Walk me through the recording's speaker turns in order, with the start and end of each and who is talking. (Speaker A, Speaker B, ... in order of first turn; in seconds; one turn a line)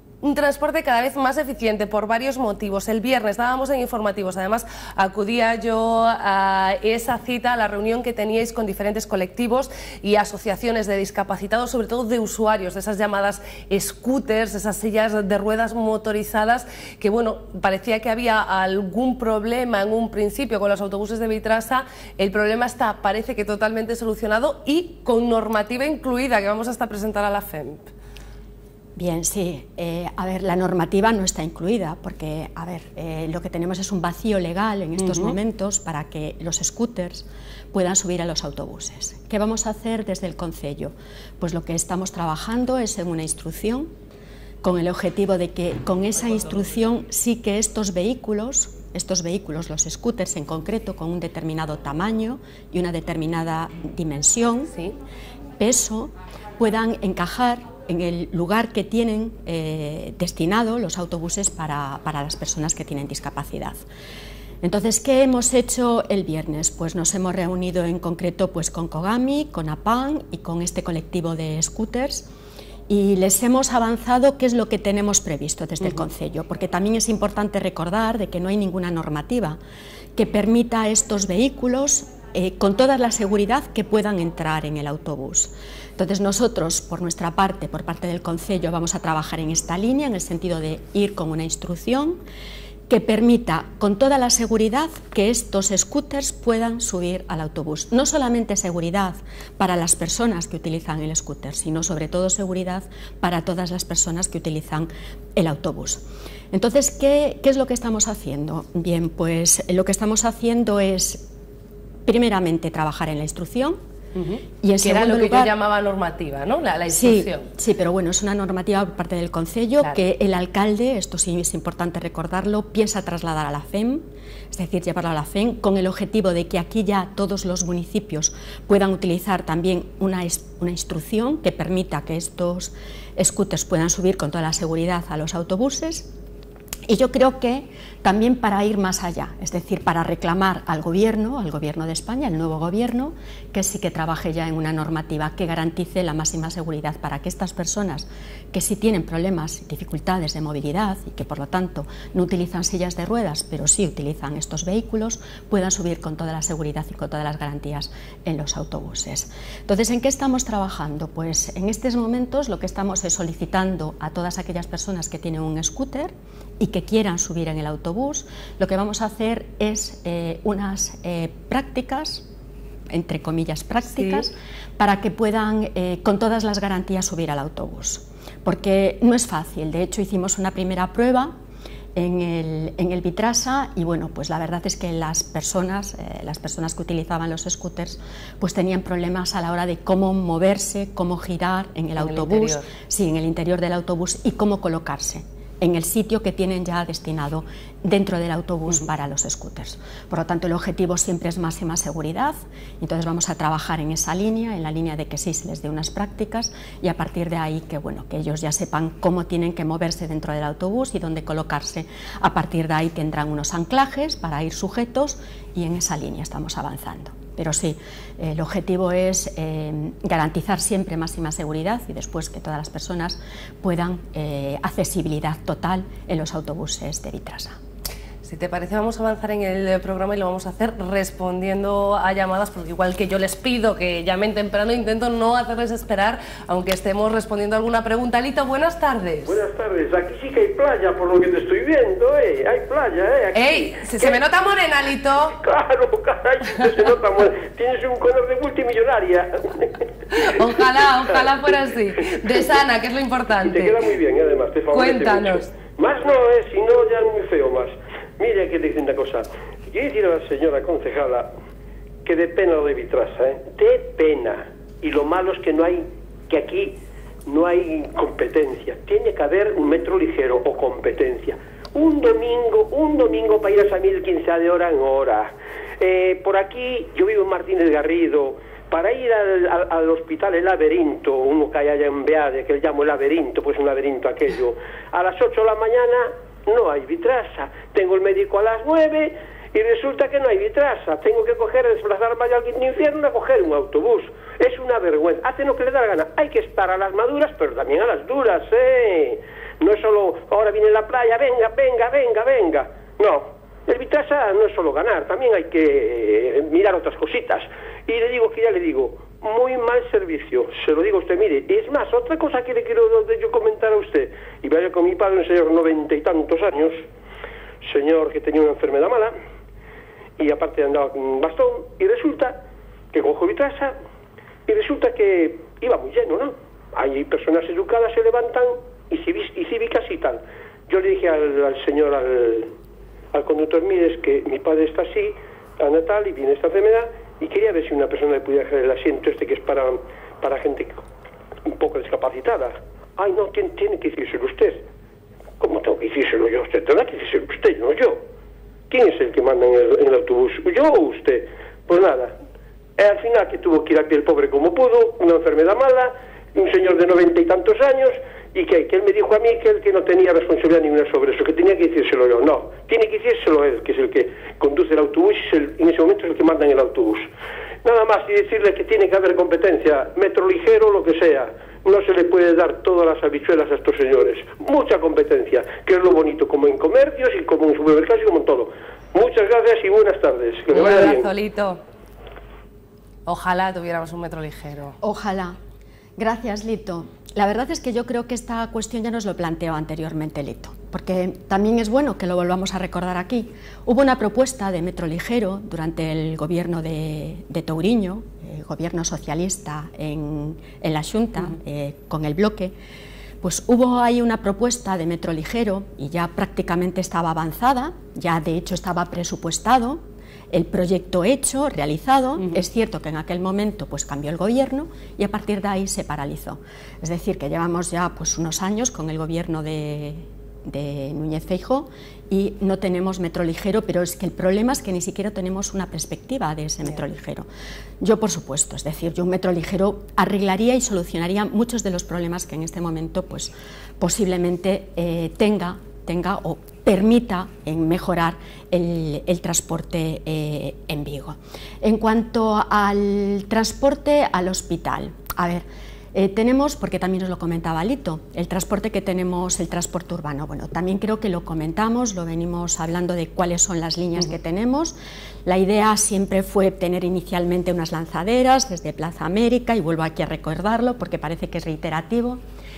Speaker A: 0.2-27.9
Speaker B: 29.0-43.9
Speaker A: 35.0-35.4
Speaker B: 44.6-54.7
Speaker B: 55.6-63.8
Speaker B: 64.6-72.3
Speaker B: 72.9-79.6
Speaker B: 80.2-92.2
Speaker B: 92.9-111.3
Speaker B: 112.0-113.8
Speaker A: 114.2-117.5
Speaker B: 114.6-115.5
Speaker B: 116.9-136.1
Speaker B: 136.9-172.3
Speaker B: 172.9-181.3
Speaker A: 173.9-174.2
Speaker B: 181.9-227.6
Speaker A: 192.0-192.7
Speaker A: 228.2-239.4
Speaker C: 239.2-244.2
Speaker A: 243.3-245.4
Speaker C: 245.3-250.2
Speaker A: 250.1-253.8
Speaker C: 253.4-261.3
Speaker A: 254.7-255.5
Speaker C: 262.1-266.8
Speaker C: 267.3-316.8
Speaker C: 317.6-319.1
Speaker C: 320.2-322.4
Speaker C: 322.9-323.7
Speaker C: 324.5-332.5
Speaker C: 333.1-340.9
Speaker C: 341.5-344.6
Speaker C: 345.4-348.0
Speaker C: 348.7-352.1
Speaker C: 352.8-367.0
Speaker C: 367.6-381.1
Speaker A: 380.5-381.6
Speaker A: 383.1-384.8
Speaker B: 384.8-385.4
Speaker B: 386.0-402.5
Speaker B: 403.2-427.3
Speaker B: 427.8-462.2